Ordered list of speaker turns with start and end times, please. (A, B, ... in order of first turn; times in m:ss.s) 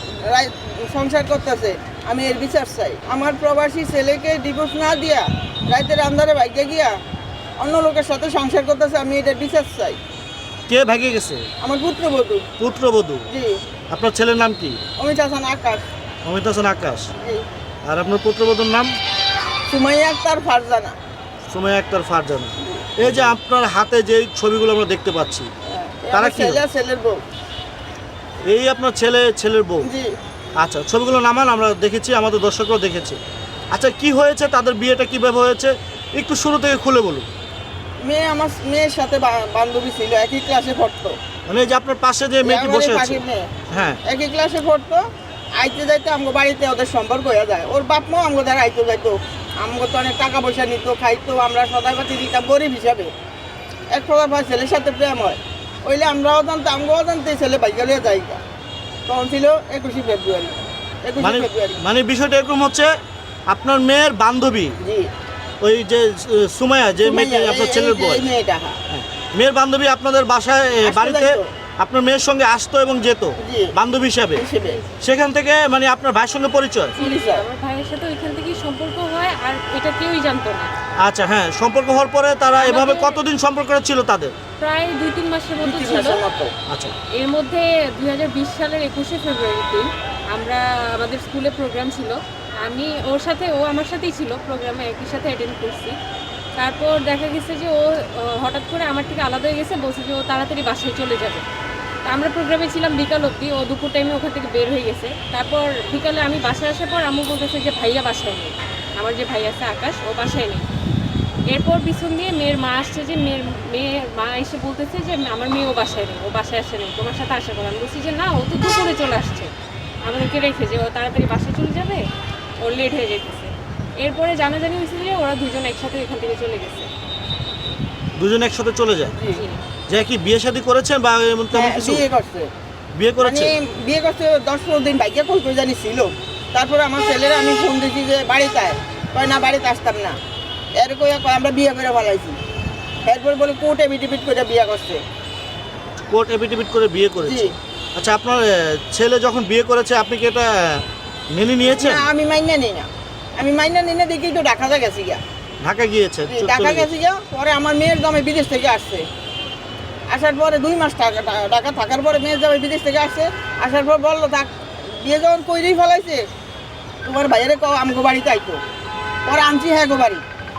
0:00.2-0:06.9 A
0:07.6-0:10.0 A
0:10.7-0:11.4 B
0:11.6-0:12.5 A
0:12.6-0:13.2 B
0:13.3-0:13.6 A
0:13.9-0:14.8 B
0:15.0-0:15.8 A
0:16.2-0:17.1 B
0:17.2-0:17.4 A
0:17.9-0:18.9 B
0:19.7-0:21.0 A
0:21.5-0:25.5 B
0:22.6-0:23.3 A
0:25.7-0:27.2 A
0:26.1-0:26.6 B
0:28.5-0:29.9 B
0:29.8-0:30.1 A
0:30.6-0:33.2 B
0:33.7-0:37.3 B
0:38.0-0:41.2 A
0:41.5-0:44.0 B
0:42.4-0:45.0 A
0:45.6-0:53.1 A
0:53.9-0:58.4 A
0:59.1-1:01.8 A
1:01.2-1:02.9 B
1:03.5-1:04.8 B
1:04.8-1:05.1 A
1:05.6-1:08.2 B
1:07.0-1:08.8 A
1:08.9-1:14.4 B
1:10.8-1:11.5 A
1:13.4-1:13.7 A
1:14.4-1:14.8 A
1:14.6-1:15.0 C
1:15.0-1:17.0 B
1:17.0-1:20.7 C
1:17.0-1:17.4 A
1:21.0-1:24.3 B
1:22.5-1:23.2 C
1:24.6-1:26.2 C
1:25.6-1:26.5 A
1:26.7-1:27.0 B
1:27.2-1:36.0 C
1:36.6-1:41.4 C
1:42.1-1:50.7 C
1:51.5-1:59.5 C
2:00.0-2:02.0 C
2:02.6-2:06.9 C
2:08.2-2:09.2 B
2:09.1-2:09.4 A
2:09.3-2:09.6 C
2:09.9-2:12.0 B
2:11.5-2:12.5 A
2:13.0-2:13.5 B
2:13.2-2:20.2 A
2:20.8-2:22.4 A
2:23.1-2:25.0 A
2:26.0-2:32.1 B
2:27.2-2:27.6 A
2:31.7-2:35.2 A
2:35.6-2:36.9 B
2:36.3-2:39.0 A
2:40.1-2:46.2 A
2:47.0-2:48.6 A
2:49.3-2:50.2 A